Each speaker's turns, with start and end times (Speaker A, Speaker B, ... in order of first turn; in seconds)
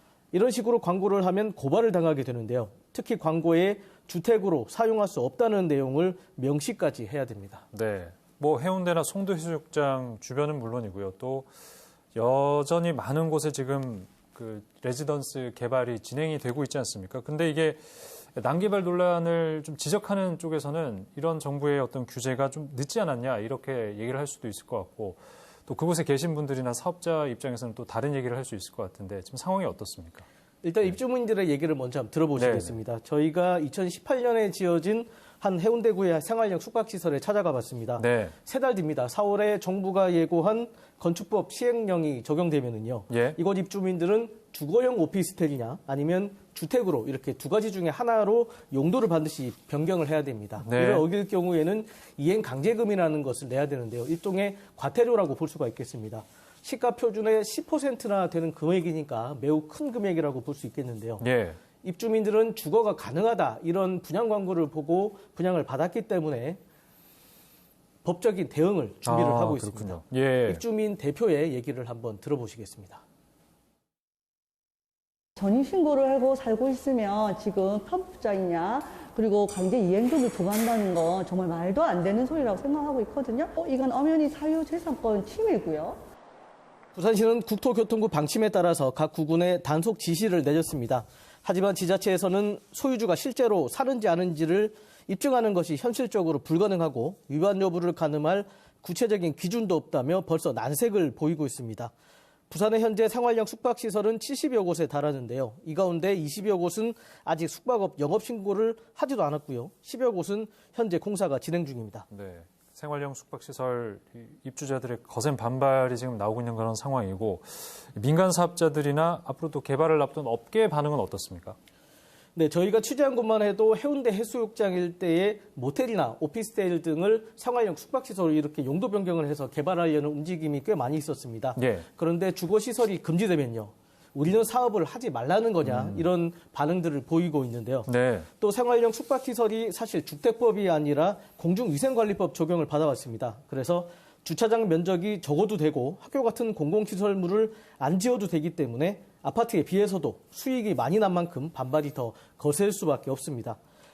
Speaker A: 0.3-7.6, 30.6-61.2, 61.8-66.6, 68.0-73.0, 87.0-101.9, 102.5-112.1, 122.3-137.9, 138.4-153.6
Speaker B: 7.7-11.5, 12.2-30.3, 32.4-32.8, 38.0-38.4, 43.1-43.4, 50.6-51.0, 61.2-61.6, 69.1-70.6, 112.1-121.6, 131.6-131.9, 135.7-136.0, 137.9-138.3
Speaker C: 75.4-86.0